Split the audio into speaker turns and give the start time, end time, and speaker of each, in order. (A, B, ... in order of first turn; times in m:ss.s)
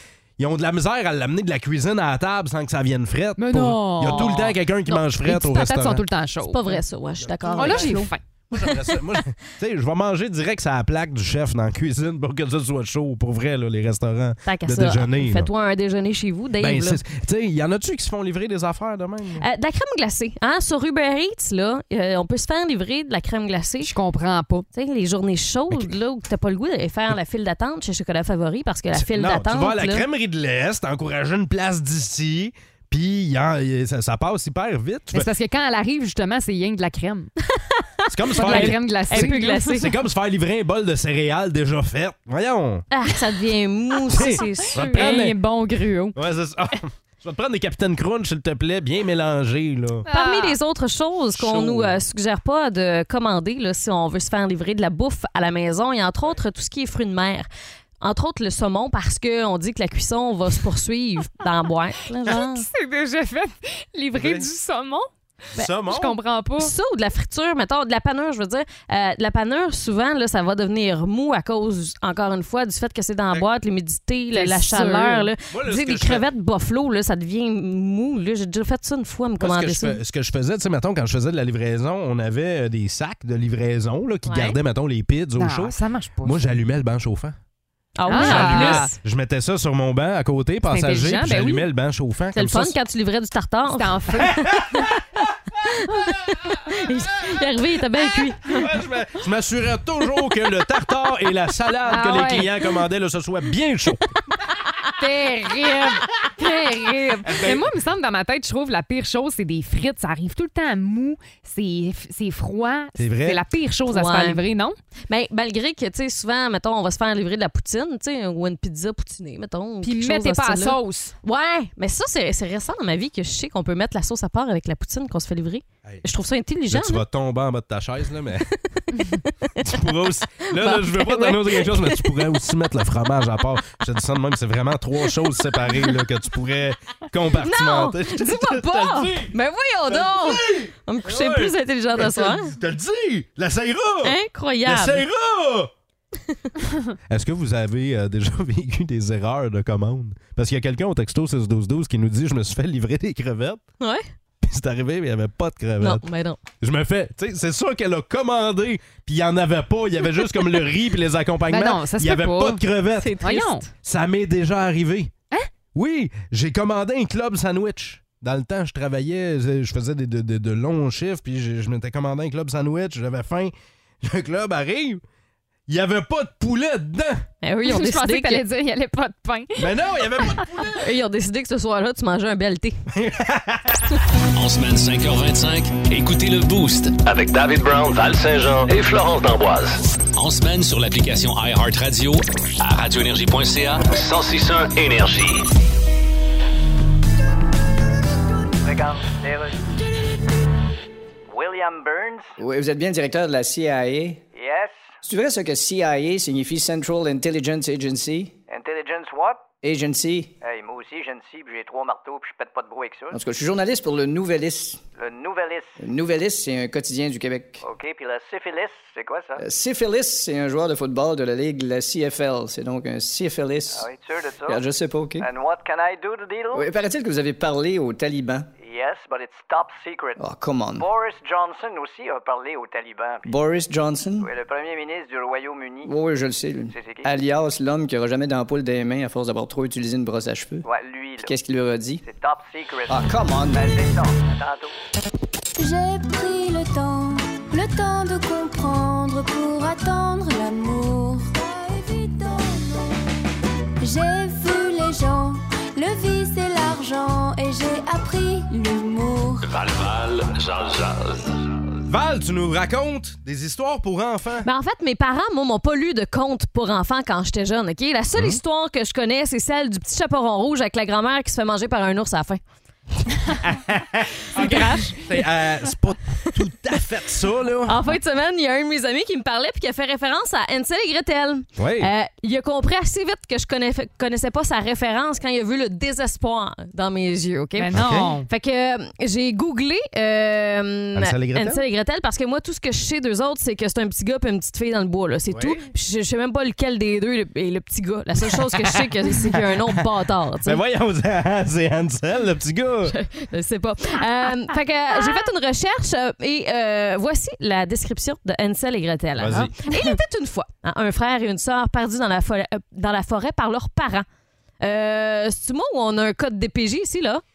0:00.4-0:06.1 A
0:03.4-0:04.6 B
0:04.1-0:05.0 C
0:05.2-0:06.8 B
0:06.4-0:08.1 C
0:07.2-0:15.5 A
0:07.6-0:08.2 B
0:08.6-0:09.0 C
0:14.4-0:17.0 C
0:16.6-0:19.4 A
0:19.4-0:23.9 C
0:23.8-0:24.7 B
0:24.7-0:30.0 C
0:28.9-0:35.3 A
0:35.1-0:37.3 B
0:37.7-0:39.9 C
0:38.1-0:42.9 A
0:38.4-0:39.8 B
0:42.9-0:45.2 C
0:44.1-0:45.4 A
0:44.2-0:46.2 B
0:46.2-0:50.1 A
0:50.1-0:50.6 B
0:50.1-0:57.5 C
0:51.3-0:52.0 A
0:58.0-1:02.7 C
1:02.3-1:05.1 B
1:04.1-1:04.5 A
1:05.6-1:06.2 A
1:05.6-1:06.7 B
1:06.6-1:20.0 C
1:14.3-1:15.3 B
1:15.5-1:16.2 A
1:19.4-1:27.4 A
1:24.3-1:24.6 C
1:25.4-1:26.4 B
1:28.0-1:28.9 C
1:28.1-1:29.0 B
1:28.1-1:32.7 A
1:30.7-1:31.7 B
1:32.3-1:34.9 C
1:33.7-1:34.4 B
1:34.2-1:35.0 A
1:35.7-1:38.6 C
1:38.5-1:44.1 A
1:41.9-1:42.5 B
1:45.0-1:54.8 B
1:47.2-1:47.7 A
1:53.0-1:53.4 A
1:53.9-1:54.4 C
1:55.1-2:07.0 C
1:59.8-2:01.1 B
2:06.7-2:08.5 A
2:08.8-2:09.5 C
2:09.6-2:19.3 A
2:10.5-2:12.1 C
2:15.4-2:16.0 C
2:17.4-2:22.5 C
2:19.9-2:25.7 A
2:24.0-2:25.0 C
2:27.1-2:33.6 A
2:33.8-2:34.0 C
2:34.4-2:36.0 A
2:35.8-2:36.4 C
2:36.6-2:43.2 A
2:41.5-2:42.6 B
2:43.0-2:43.7 C
2:43.2-2:43.7 B
2:43.8-2:45.1 A
2:45.7-2:55.0 A
2:55.7-2:57.2 A
2:57.4-2:58.4 C
2:57.6-2:59.7 B
2:59.6-3:00.8 A
3:00.8-3:02.8 C
3:02.9-3:03.9 A
3:04.4-3:07.0 D
3:07.0-3:09.8 E
3:10.2-3:14.5 D
3:14.1-3:15.5 E
3:18.7-3:19.5 F
3:21.3-3:22.3 F
3:22.4-3:24.2 G
3:24.4-3:24.7 F
3:25.0-3:28.4 G
3:28.5-3:29.4 F
3:29.6-3:30.4 G
3:30.4-3:33.2 F
3:33.1-3:34.8 G
3:35.0-3:35.8 F
3:35.8-3:37.6 G
3:37.6-3:39.4 F
3:39.4-3:43.9 G
3:43.7-3:44.6 F
3:44.5-3:45.2 G
3:45.2-3:46.6 F
3:46.5-3:48.5 G
3:48.6-3:50.2 F
3:50.2-3:50.9 G
3:50.8-3:53.3 F
3:53.2-3:54.3 G
3:54.2-3:55.9 F
3:55.8-4:00.6 G
3:56.7-3:57.1 F
4:00.6-4:01.3 F
4:01.2-4:02.0 G
4:02.1-4:03.0 F
4:02.9-4:03.9 G
4:03.5-4:04.7 F
4:05.6-4:13.0 H
4:13.8-4:19.5 H
4:19.5-4:21.4 E
4:21.9-4:24.5 A
4:24.4-4:32.4 C
4:33.4-4:37.8 A
4:34.4-4:34.6 C
4:34.4-4:34.9 B
4:37.7-5:00.6 C
4:41.6-4:41.9 A
4:47.6-4:48.3 B
4:47.7-4:48.1 A
4:51.0-4:51.6 A
4:55.3-4:55.6 A
4:58.3-4:59.7 A
5:00.4-5:02.9 A
5:02.9-5:14.1 C
5:09.2-5:09.6 A
5:14.6-5:17.2 C